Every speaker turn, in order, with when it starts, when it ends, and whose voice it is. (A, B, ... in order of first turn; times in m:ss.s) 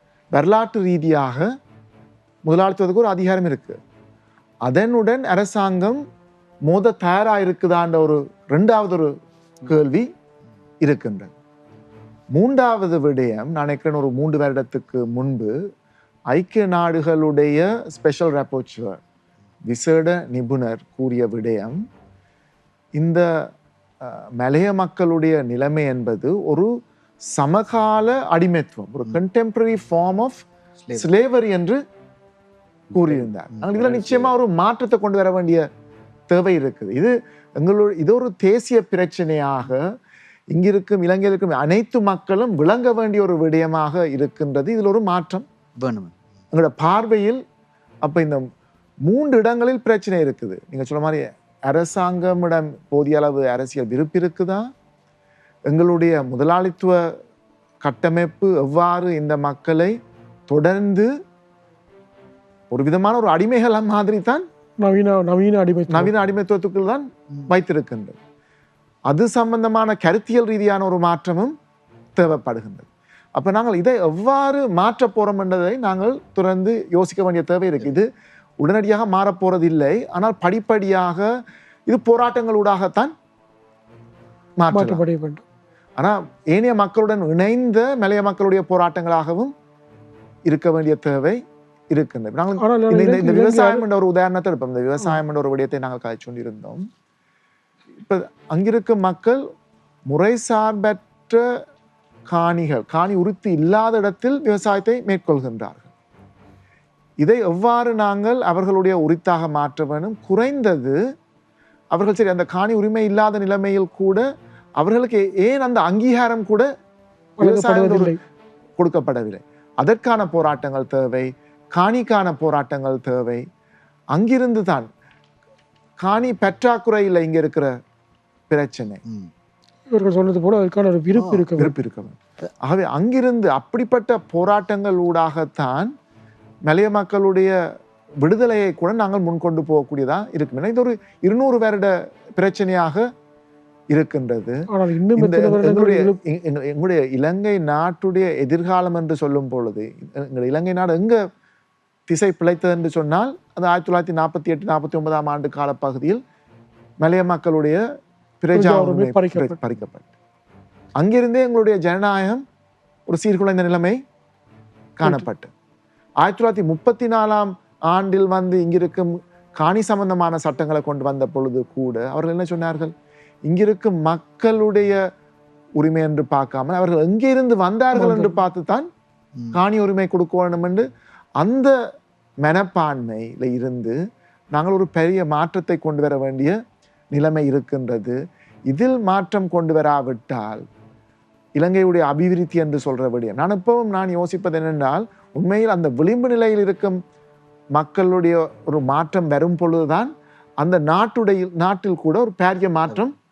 0:00.3-0:01.5 A
0:02.5-0:03.8 A
0:04.6-0:06.0 A
0:06.7-0:09.1 A
0:09.6-0:10.1 A
0:10.8-0:11.3 A
0:12.4-0:15.5 A
0:16.3-0:19.0 A
0:19.7-0:21.8 A
0:23.0-0:23.2 A
0:24.0-0:26.7 A
0:27.3-0:31.8 A
0:32.9-0:35.6 A
0:33.0-0:34.3 B
0:36.3-0:39.8 A
0:40.5-0:45.4 A
0:45.8-0:46.1 B
0:46.5-0:47.4 A
0:48.0-0:48.5 A
0:49.1-0:54.7 A
0:55.7-0:57.0 A
0:57.8-0:59.9 A
1:00.5-1:01.1 A
1:02.7-1:04.4 A
1:04.8-1:06.1 C
1:05.9-1:08.2 A
1:09.1-1:11.6 A
1:12.2-1:18.1 A
1:18.6-1:21.2 A
1:21.9-1:23.1 A
1:24.6-1:25.0 A
1:24.7-1:25.4 C
1:26.0-1:29.5 A
1:30.5-1:31.4 A
1:31.9-1:36.9 A
1:32.6-1:33.8 C
1:38.0-1:39.4 A
1:40.1-1:41.5 A
1:42.3-1:45.9 A
1:47.2-1:51.0 A
1:51.9-1:54.2 A
1:54.8-1:56.7 A
1:57.4-1:58.2 C
1:57.4-1:58.1 A
1:58.8-2:03.4 A
2:04.1-2:04.9 A
2:06.0-2:07.7 A
2:08.5-2:09.0 A
2:09.1-2:09.3 B
2:09.9-2:11.8 C
2:11.1-2:11.5 B
2:11.6-2:15.9 A
2:16.7-2:17.5 A
2:18.2-2:23.0 A
2:23.9-2:24.6 A
2:24.7-2:26.2 C
2:25.2-2:31.2 A
2:32.1-2:36.2 A
2:37.0-2:37.8 A
2:38.4-2:40.1 A
2:38.5-2:39.6 C
2:41.0-2:42.4 A
2:43.1-2:44.0 A
2:45.0-2:45.5 A
2:46.2-2:52.9 A
2:53.5-2:55.0 A
2:55.8-2:58.9 A
2:57.9-2:58.4 C
2:59.5-3:00.8 A
3:01.4-3:01.7 A
3:02.4-3:04.0 A
3:04.5-3:06.6 A
3:07.1-3:08.2 A
3:08.7-3:10.6 A
3:11.6-3:17.0 A
3:17.8-3:23.2 A